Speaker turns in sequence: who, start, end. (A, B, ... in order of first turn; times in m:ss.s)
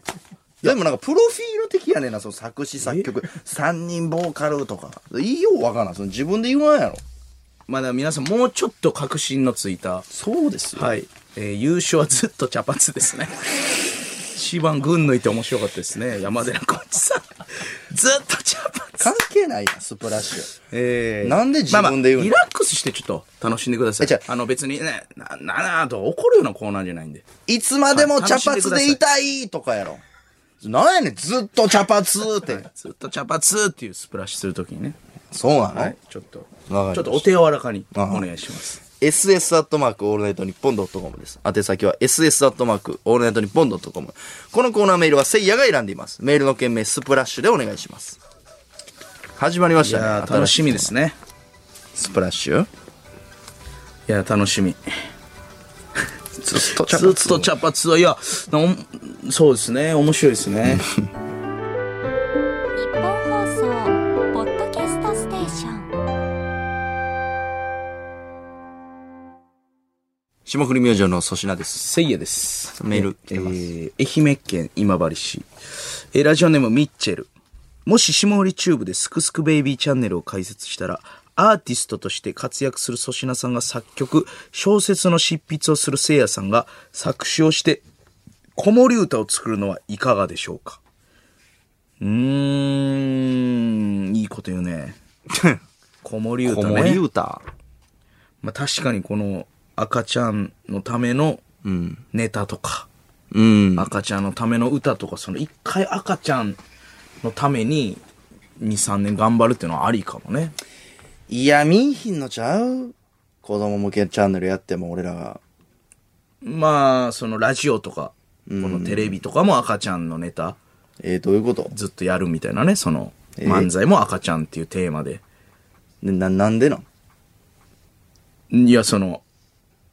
0:00.6-0:07.0 A
0:02.8-0:03.1 B
0:07.7-0:10.1 B
0:10.1-0:10.9 A
0:10.7-0:13.6 B
0:14.3-0:19.1 B
0:19.0-0:20.6 A
0:20.7-0:27.3 B
0:21.2-0:22.4 A
0:24.0-0:24.2 A
0:27.4-0:30.0 A
0:27.9-0:29.0 B
0:30.6-0:32.6 A
0:32.4-0:35.0 B
0:35.3-0:35.9 A
0:35.7-0:38.8 B
0:36.7-0:37.3 A
0:37.9-0:38.3 A
0:38.9-0:48.2 A
0:49.4-0:50.9 A
0:49.8-0:51.2 B
0:51.9-0:52.7 A
0:54.1-0:54.8 B
0:56.4-0:57.5 A
0:56.5-1:00.8 B
1:00.6-1:01.0 A
1:02.7-1:06.0 C
1:10.4-1:11.8 A
1:11.7-1:17.3 B
1:12.7-1:13.7 A
1:17.8-1:27.8 B
1:28.6-1:30.8 B
1:32.0-1:35.0 B
1:35.3-1:35.6 A
1:36.0-1:37.0 B
1:36.4-1:37.4 A
1:38.4-1:41.4 B
1:41.6-1:42.0 A
1:42.1-1:42.9 B
1:43.3-1:43.9 A
1:43.8-1:46.6 B
1:47.2-1:48.0 B
1:48.6-1:50.6 B
1:51.3-1:55.4 A
1:56.4-2:00.6 B
1:58.5-1:59.2 A
2:01.0-2:01.7 A
2:01.7-2:05.2 B
2:03.4-2:03.7 A
2:06.0-2:06.8 A
2:08.5-2:09.2 B